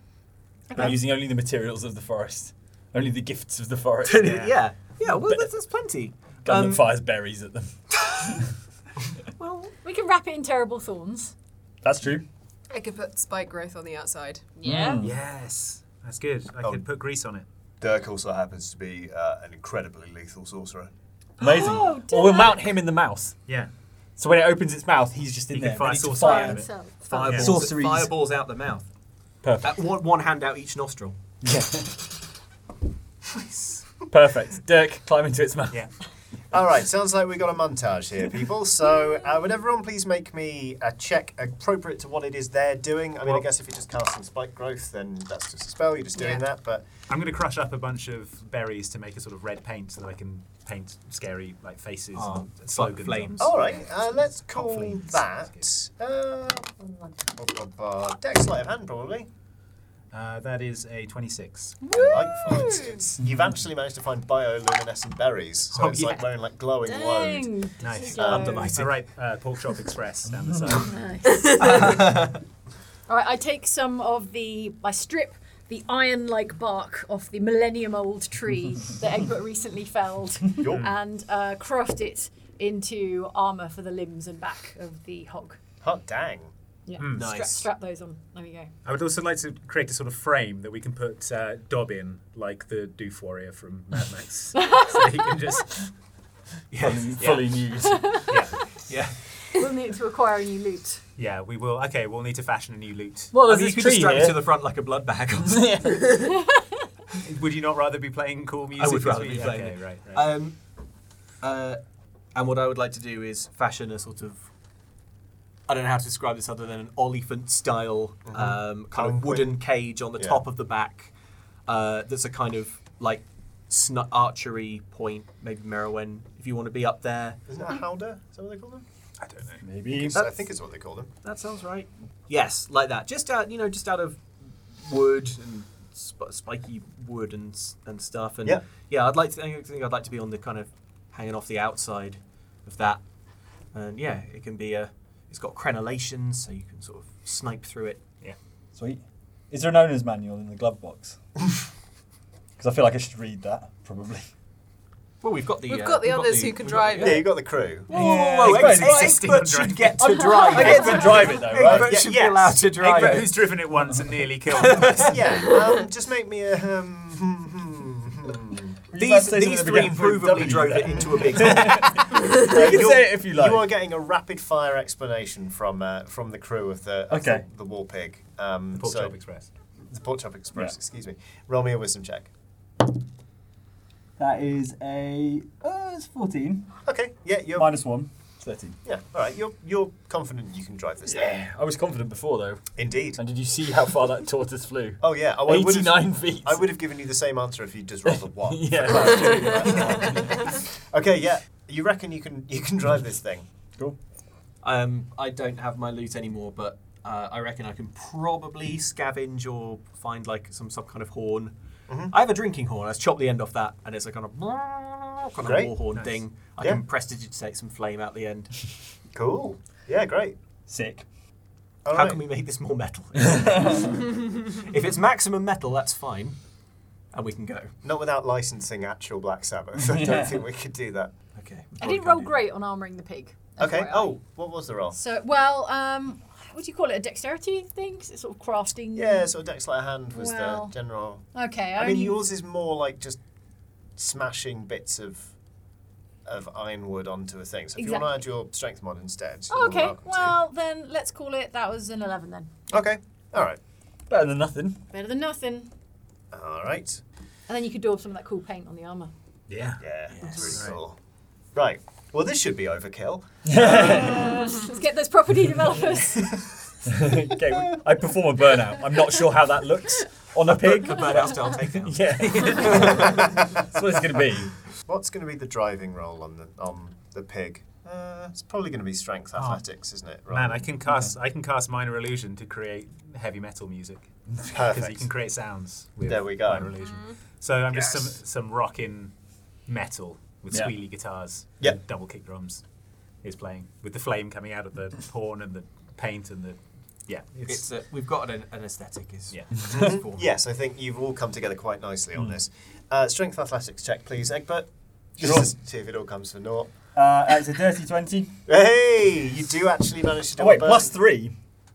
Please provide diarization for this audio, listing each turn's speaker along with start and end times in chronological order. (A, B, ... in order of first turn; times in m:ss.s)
0:00.7-0:01.0 A
0:00.7-0:04.5 B
0:04.0-0:06.9 C
0:06.4-0:08.4 B
0:09.6-0:11.3 A
0:11.8-0:12.2 B
0:12.7-0:15.0 D
0:14.6-0:15.0 A
0:14.6-0:15.1 B
0:15.0-0:17.4 E
0:17.8-0:20.9 F
0:21.4-0:23.4 B
0:21.4-0:22.6 A
0:24.2-0:26.6 B
0:25.5-0:26.7 E
0:25.8-0:26.4 C
0:26.2-0:27.4 A
0:27.1-0:28.8 C
0:27.2-0:28.1 B
0:27.2-0:27.6 E
0:29.4-0:29.7 B
0:29.6-0:31.2 C
0:31.4-0:32.0 B
0:33.3-0:33.8 E
0:34.1-0:35.8 B
0:36.5-0:46.9 F
0:47.1-0:53.8 E
0:52.1-0:53.5 C
0:53.4-0:59.3 F
0:54.4-0:55.6 E
1:00.1-1:01.9 E
1:01.9-1:07.5 F
1:01.9-1:02.8 A
1:05.7-1:06.1 C
1:05.8-1:06.2 E
1:06.8-1:08.7 A
1:07.8-1:10.9 E
1:08.1-1:08.7 F
1:08.2-1:08.9 C
1:10.8-1:12.0 A
1:11.6-1:12.4 C
1:13.1-1:25.6 A
1:20.6-1:20.9 F
1:25.8-1:26.5 F
1:26.8-1:28.7 A
1:27.0-1:27.4 E
1:27.1-1:27.7 C
1:28.8-1:35.8 E
1:34.6-1:35.1 A
1:36.7-1:37.4 C
1:36.8-1:38.3 B
1:37.2-1:37.5 E
1:37.8-1:38.2 A
1:38.3-1:38.6 E
1:38.9-1:39.1 C
1:39.5-1:41.0 A
1:41.2-1:43.3 E
1:43.3-1:44.4 B
1:43.4-1:45.8 C
1:45.5-1:46.3 B
1:46.1-1:46.6 A
1:47.2-1:50.3 E
1:48.8-1:50.6 C
1:51.4-1:51.8 C
1:52.3-1:54.4 C
1:55.7-2:01.1 C
1:58.3-1:59.6 F
2:01.7-2:07.4 C
2:07.5-2:08.8 F
2:09.2-2:09.6 E
2:09.6-2:10.2 B
2:09.9-2:11.1 F
2:11.2-2:14.2 C
2:14.8-2:23.0 C
2:23.7-2:28.0 C
2:28.7-2:31.2 B
2:32.6-2:34.3 B
2:35.2-2:37.4 C
2:35.7-2:37.3 D
2:37.0-2:37.9 F
2:37.9-2:39.3 B
2:37.9-2:43.3 C
2:38.4-2:40.1 E
2:40.0-2:42.0 B
2:41.2-2:42.6 F
2:42.8-2:45.2 E
2:44.5-2:45.8 C
2:45.0-2:48.8 F
2:48.9-2:53.7 B
2:48.9-2:52.3 C
2:52.1-2:59.1 F
2:57.1-2:57.4 B
2:58.7-2:59.5 E
2:59.9-3:02.3 F
3:04.2-3:06.7 B
3:06.8-3:07.9 F
3:07.6-3:08.8 B
3:08.8-3:11.4 F
3:11.1-3:12.6 B
3:12.8-3:13.2 F
3:13.2-3:16.6 B
3:15.0-3:23.4 F
3:18.1-3:20.5 B
3:24.6-3:31.5 C
3:32.1-3:38.6 C
3:35.4-3:35.7 F
3:39.1-3:40.4 F
3:40.7-3:41.1 B
3:41.8-3:42.2 F
3:41.9-3:46.4 C
3:43.2-3:43.9 B
3:47.1-3:47.7 C
3:47.8-3:51.1 F
3:49.8-3:50.4 B
3:51.3-3:52.4 C
3:51.8-3:54.2 A
3:53.6-3:55.0 F
3:54.9-3:59.3 A
3:58.9-4:01.2 F
4:00.1-4:00.7 A
4:01.3-4:02.2 A
4:01.8-4:03.2 F
4:04.0-4:05.3 F
4:06.2-4:10.4 F
4:07.8-4:08.1 A
4:09.5-4:12.5 A
4:12.7-4:13.6 F
4:14.1-4:14.8 B
4:14.9-4:15.7 A
4:16.3-4:17.0 F
4:17.5-4:19.1 A
4:19.5-4:19.8 E
4:19.8-4:21.0 F
4:20.1-4:20.5 C
4:20.5-4:20.8 E
4:21.5-4:24.3 F
4:23.4-4:24.3 B
4:23.6-4:26.5 A
4:26.8-4:34.5 B
4:30.6-4:33.2 C
4:32.2-4:33.0 E
4:32.8-4:33.6 F
4:34.8-4:40.7 F
4:39.3-4:39.6 E
4:40.3-4:49.1 E
4:44.5-4:45.0 F
4:46.0-4:46.7 F
4:46.8-4:47.2 D
4:47.7-4:48.1 F
4:49.6-4:52.6 E
4:53.2-4:57.6 E
4:57.5-5:00.3 C
4:59.7-5:06.7 F
5:05.2-5:05.5 B
5:06.9-5:08.3 B
5:08.5-5:10.9 F
5:10.4-5:11.3 B